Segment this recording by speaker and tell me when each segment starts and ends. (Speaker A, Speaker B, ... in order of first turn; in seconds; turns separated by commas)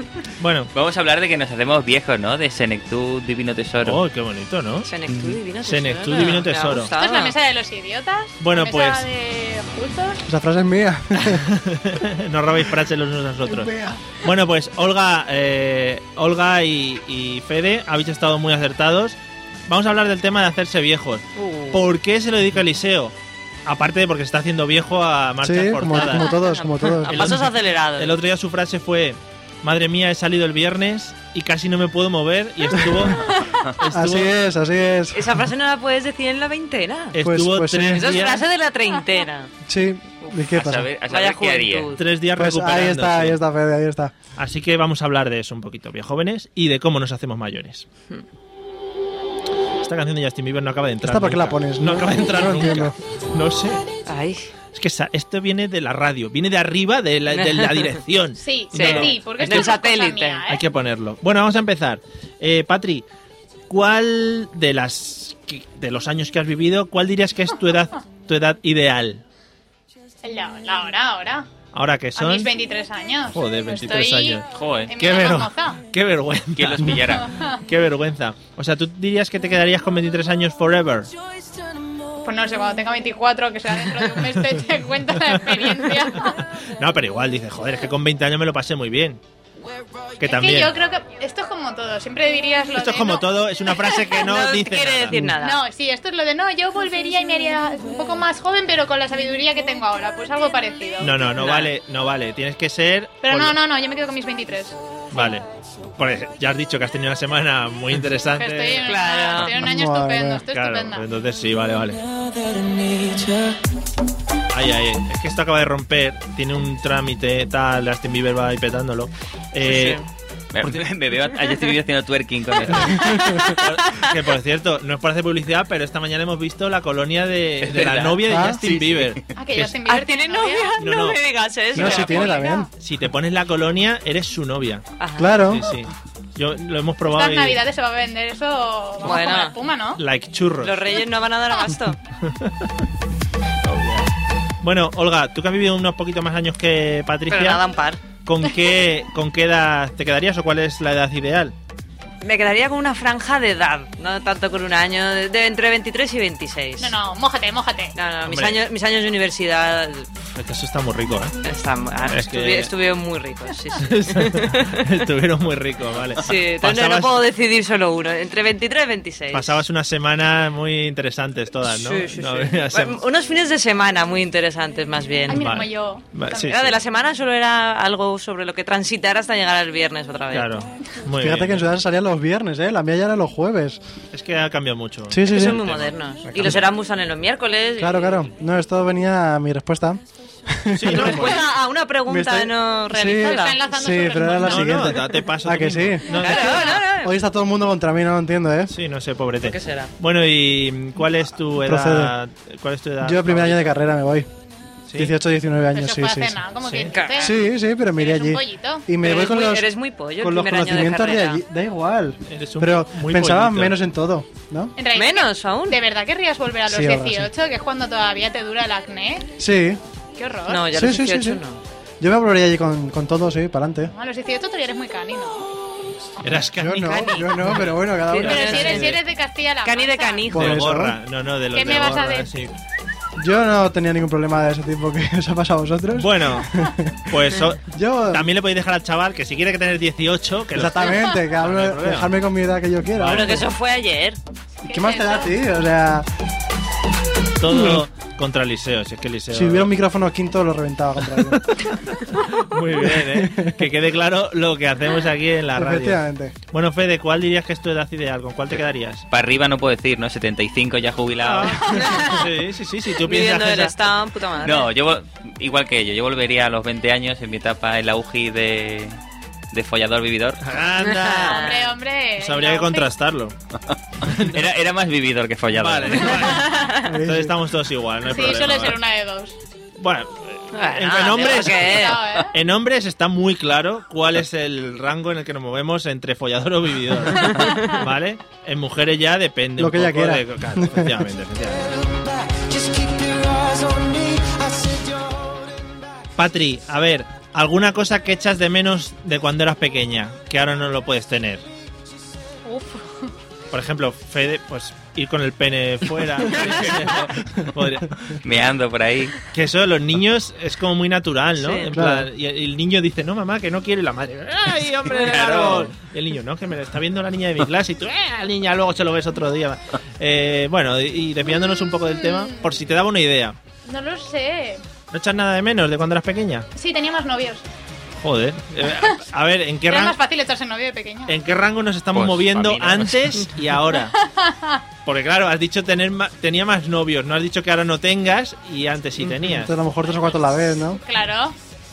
Speaker A: 0.4-0.7, Speaker B: 0.7-4.0, Speaker A: 3.8-4.9, Speaker C: 4.8-7.3, Speaker B: 5.1-5.4, Speaker A: 5.6-6.9, Speaker D: 7.0-10.2, Speaker A: 8.4-9.1, Speaker E: 10.3-11.4, Speaker A: 11.2-23.1, Speaker E: 13.5-14.0, Speaker C: 21.4-21.8, Speaker A: 23.6-26.3, Speaker E: 25.4-27.3, Speaker C: 26.2-28.2, Speaker A: 27.1-34.3, Speaker E: 33.9-35.3, Speaker C: 35.1-37.2, Speaker A: 37.1-38.4, Speaker E: 37.2-38.1, Speaker C: 37.9-39.5, Speaker E: 39.6-40.9, Speaker B: 40.5-41.9, Speaker C: 41.1-42.0, Speaker A: 42.0-43.4, Speaker E: 42.3-44.1, Speaker A: 44.3-47.9, Speaker A: 49.8-53.8, Speaker E: 51.0-52.9, Speaker C: 54.0-54.5, Speaker A: 54.7-59.8, Speaker C: 57.3-58.0, Speaker D: 58.4-60.6, Speaker C: 58.7-60.4, Speaker A: 60.5-63.0, Speaker A: 63.7-69.2, Speaker D: 70.2-71.5, Speaker A: 71.7-72.5, Speaker D: 72.1-75.8, Speaker A: 73.3-77.1, Speaker B: 74.5-74.9, Speaker B: 76.5-77.3, Speaker D: 77.2-77.5, Speaker A: 77.6-81.1, Speaker D: 82.2-86.4, Speaker A: 86.6-89.2, Speaker A: 90.2-90.7, Speaker D: 90.2-93.9, Speaker A: 92.8-95.3, Speaker C: 94.1-95.6, Speaker D: 95.3-101.2, Speaker A: 101.0-103.6, Speaker C: 101.4-101.7, Speaker D: 103.2-105.2, Speaker A: 105.1-105.4, Speaker A: 106.0-109.0, Speaker D: 108.3-111.1, Speaker C: 108.8-109.5, Speaker E: 109.5-110.4, Speaker A: 110.5-112.0, Speaker A: 114.5-120.0, Speaker C: 119.6-120.0, Speaker B: 120.5-123.2, Speaker C: 123.0-124.1, Speaker A: 123.5-129.8, Speaker B: 127.6-129.2, Speaker E: 128.3-128.6, Speaker D: 129.3-130.8, Speaker C: 129.8-132.5, Speaker A: 130.8-131.2, Speaker E: 131.7-132.7, Speaker A: 131.8-134.8, Speaker D: 131.8-132.7, Speaker C: 135.0-135.5, Speaker E: 135.2-135.7, Speaker A: 135.5-137.6, Speaker D: 137.1-140.0, Speaker C: 139.0-139.5, Speaker A: 140.0-140.8, Speaker C: 140.6-142.0, Speaker A: 142.2-142.7, Speaker A: 143.6-144.1, Speaker A: 144.6-147.6, Speaker C: 147.3-148.0, Speaker A: 148.2-151.5, Speaker C: 152.2-156.9, Speaker D: 156.8-157.9, Speaker C: 157.9-160.1, Speaker A: 158.2-158.6, Speaker A: 160.3-161.3, Speaker C: 161.4-164.8, Speaker A: 162.1-162.7, Speaker A: 163.8-167.2, Speaker C: 166.2-169.6, Speaker A: 169.3-173.0, Speaker C: 171.6-175.5, Speaker D: 175.3-176.5, Speaker A: 175.3-176.8, Speaker C: 176.4-180.5, Speaker A: 180.3-181.7, Speaker E: 181.2-183.8, Speaker A: 184.1-186.7, Speaker E: 185.1-185.6, Speaker C: 185.3-188.3, Speaker E: 187.8-191.4, Speaker A: 190.8-191.4, Speaker C: 190.9-193.6, Speaker E: 192.1-196.2, Speaker D: 193.1-194.9, Speaker A: 194.4-196.8, Speaker C: 196.1-197.1, Speaker E: 197.0-198.7, Speaker A: 198.7-203.7, Speaker C: 199.4-199.9, Speaker E: 201.6-202.1, Speaker E: 203.0-204.3, Speaker A: 204.9-205.1, Speaker E: 205.0-206.4, Speaker D: 205.7-208.8, Speaker A: 206.6-206.9, Speaker C: 206.9-207.4, Speaker E: 207.2-214.7, Speaker C: 209.0-211.4, Speaker A: 212.3-213.8, Speaker D: 214.8-219.3, Speaker C: 214.9-215.8, Speaker E: 216.7-217.3, Speaker E: 219.4-219.8, Speaker D: 220.2-220.7, Speaker C: 220.5-221.6, Speaker E: 220.7-221.4, Speaker E: 222.0-223.9, Speaker D: 223.9-225.5, Speaker A: 226.2-229.0, Speaker E: 226.6-228.9, Speaker C: 228.0-229.0, Speaker D: 228.2-230.3, Speaker C: 229.6-230.6, Speaker E: 230.3-231.0, Speaker A: 230.3-232.6, Speaker D: 231.5-232.3, Speaker E: 233.2-238.3, Speaker A: 235.9-236.5, Speaker A: 237.1-242.1, Speaker E: 240.5-243.4, Speaker A: 243.0-243.4, Speaker C: 243.0-244.2, Speaker D: 244.6-245.3, Speaker E: 244.7-246.1, Speaker A: 247.4-249.7, Speaker E: 247.5-247.8, Speaker E: 249.3-251.4, Speaker A: 251.2-256.0, Speaker E: 252.8-253.6, Speaker E: 255.6-256.3, Speaker A: 256.5-259.0, Speaker B: 259.1-261.7, Speaker A: 261.2-263.8, Speaker C: 261.6-262.2, Speaker C: 263.0-264.7, Speaker B: 264.4-268.9, Speaker B: 269.5-270.4, Speaker A: 270.4-271.4, Speaker C: 270.8-271.8, Speaker D: 271.2-272.9, Speaker A: 272.2-273.3, Speaker A: 274.0-274.4, Speaker B: 274.1-276.1, Speaker A: 275.5-278.8, Speaker C: 276.1-276.9, Speaker E: 276.9-277.4, Speaker D: 278.1-279.4, Speaker A: 279.8-291.8, Speaker C: 280.5-282.0, Speaker D: 281.2-282.3, Speaker C: 287.2-287.7, Speaker E: 289.6-290.9, Speaker A: 296.1-301.4, Speaker D: 302.4-303.1, Speaker A: 303.5-308.2, Speaker B: 308.2-309.3, Speaker A: 309.3-323.4, Speaker C: 311.4-311.7, Speaker E: 311.7-312.1, Speaker B: 314.9-315.7, Speaker D: 321.8-322.5, Speaker D: 323.6-324.6, Speaker A: 324.9-326.5, Speaker D: 326.5-327.4, Speaker A: 327.9-330.0, Speaker D: 328.6-328.9, Speaker D: 329.7-331.2, Speaker A: 331.1-333.9, Speaker B: 331.9-333.2, Speaker D: 334.0-334.6, Speaker A: 334.8-339.5, Speaker E: 339.2-340.8, Speaker D: 340.8-341.4